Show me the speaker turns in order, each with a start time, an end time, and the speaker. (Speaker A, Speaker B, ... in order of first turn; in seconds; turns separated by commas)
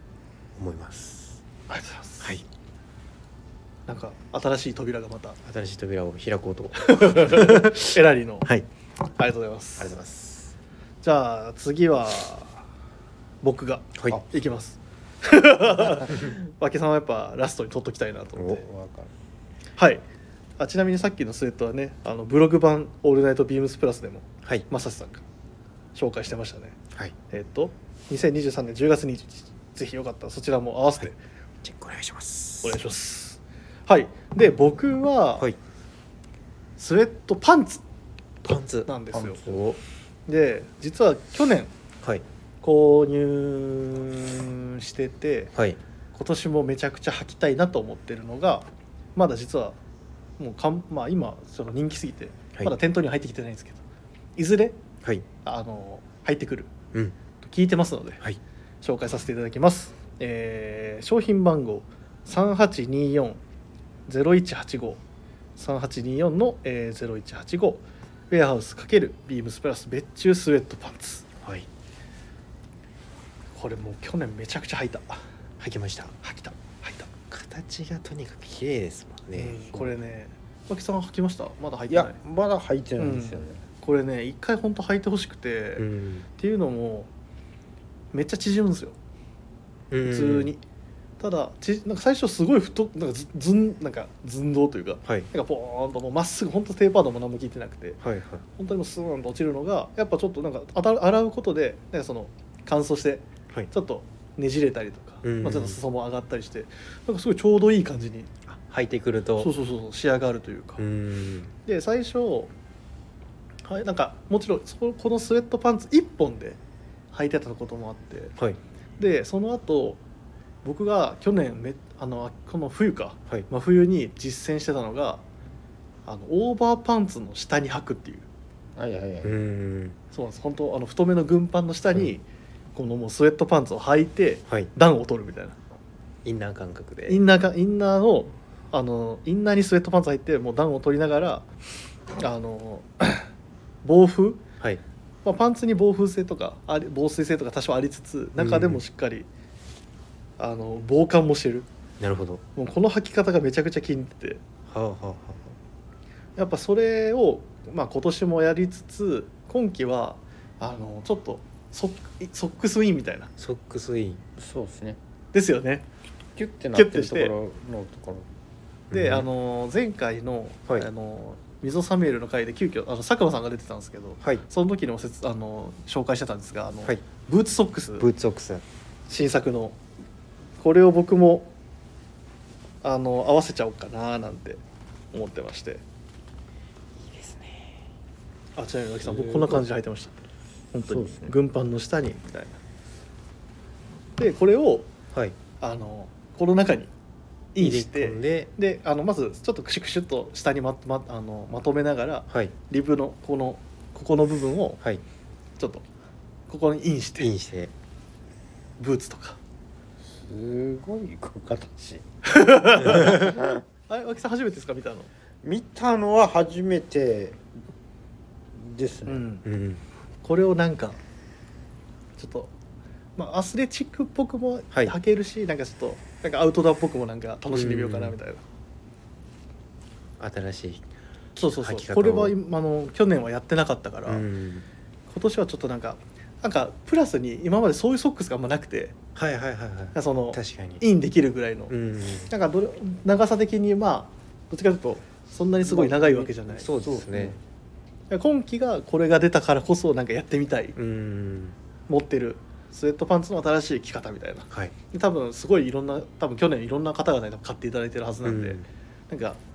Speaker A: 0.5-1.4, Speaker B: 1.7-2.4, Speaker B: 3.9-5.4, Speaker A: 5.4-8.7, Speaker B: 6.8-8.5, Speaker B: 9.2-9.9, Speaker A: 9.8-10.5, Speaker B: 11.0-12.7, Speaker B: 13.4-18.6, Speaker A: 18.4-18.6, Speaker C: 18.6-19.1, Speaker B: 19.8-20.0, Speaker B: 20.6-25.2, Speaker B: 25.9-26.8, Speaker B: 27.3-31.2, Speaker A: 31.6-32.8, Speaker B: 32.6-35.5, Speaker B: 36.8-37.8, Speaker A: 38.4-39.8, Speaker B: 38.9-39.4, Speaker C: 39.1-39.6, Speaker B: 40.3-41.7, Speaker B: 42.6-45.5, Speaker A: 45.5-45.8, Speaker B: 46.1-49.8, Speaker B: 50.4-53.8, Speaker B: 54.4-54.8, Speaker B: 55.4-56.7, Speaker B: 57.4-58.2, Speaker B: 58.8-63.4, Speaker B: 64.1-65.0, Speaker B: 65.6-71.2, Speaker A: 71.4-71.7, Speaker B: 73.5-75.2, Speaker A: 75.6-76.1, Speaker B: 76.2-77.1, Speaker A: 77.3-79.9, Speaker B: 79.3-82.2, Speaker C: 81.9-83.6, Speaker B: 83.0-85.8, Speaker A: 85.8-86.3, Speaker B: 86.4-87.1, Speaker B: 88.1-89.0, Speaker A: 89.9-90.5, Speaker B: 90.0-90.6, Speaker B: 91.2-98.0, Speaker A: 98.0-98.4, Speaker B: 98.5-108.3, Speaker A: 105.2-105.8, Speaker A: 108.5-109.5, Speaker B: 109.4-110.8, Speaker A: 110.8-111.5, Speaker B: 111.6-112.5, Speaker B: 113.6-116.6, Speaker B: 117.1-118.3, Speaker B: 119.0-120.0, Speaker B: 120.6-125.2, Speaker B: 126.0-128.3, Speaker C: 128.8-129.4, Speaker A: 129.2-130.0, Speaker B: 130.1-135.6, Speaker A: 136.2-137.2, Speaker B: 137.1-141.4, Speaker B: 142.1-143.3, Speaker B: 143.8-144.4, Speaker B: 145.2-149.3, Speaker A: 148.3-148.8, Speaker B: 150.4-151.7, Speaker A: 152.0-152.4, Speaker B: 152.6-154.4, Speaker A: 154.7-155.6, Speaker B: 156.4-163.3, Speaker A: 163.4-164.2, Speaker C: 164.4-165.0, Speaker B: 165.3-165.8, Speaker C: 166.3-168.2, Speaker B: 166.7-167.3, Speaker A: 168.9-169.3, Speaker B: 168.9-178.1, Speaker A: 178.0-178.6, Speaker B: 179.1-179.8, Speaker B: 180.6-181.5, Speaker B: 182.8-184.6, Speaker B: 185.1-185.8, Speaker A: 187.0-187.8, Speaker B: 188.6-190.2, Speaker C: 189.1-189.6, Speaker B: 190.7-192.6, Speaker C: 190.9-191.3, Speaker B: 194.2-194.9, Speaker A: 195.1-195.4, Speaker B: 195.6-196.9, Speaker B: 197.5-204.8, Speaker A: 197.6-198.5, Speaker A: 202.3-202.5, Speaker B: 205.6-205.8, Speaker B: 206.5-207.3, Speaker A: 207.2-207.7, Speaker B: 208.8-209.4, Speaker C: 210.2-212.0, Speaker B: 212.2-215.1, Speaker A: 212.8-213.3, Speaker C: 213.0-213.6, Speaker C: 215.4-217.4, Speaker C: 218.5-219.2, Speaker B: 219.1-219.4, Speaker A: 219.4-219.8, Speaker B: 220.2-221.0, Speaker B: 222.2-222.5, Speaker B: 223.2-228.4, Speaker A: 227.5-228.2, Speaker A: 230.2-230.8, Speaker B: 231.3-234.2, Speaker A: 231.6-232.3, Speaker A: 234.1-234.7, Speaker B: 235.1-238.9, Speaker A: 239.1-240.8, Speaker B: 239.9-241.7, Speaker A: 241.7-242.3, Speaker B: 242.3-246.7, Speaker C: 245.6-247.4, Speaker A: 246.5-247.4, Speaker B: 248.1-250.8, Speaker A: 250.8-251.6, Speaker B: 251.9-259.4, Speaker A: 254.5-254.7, Speaker A: 258.2-258.6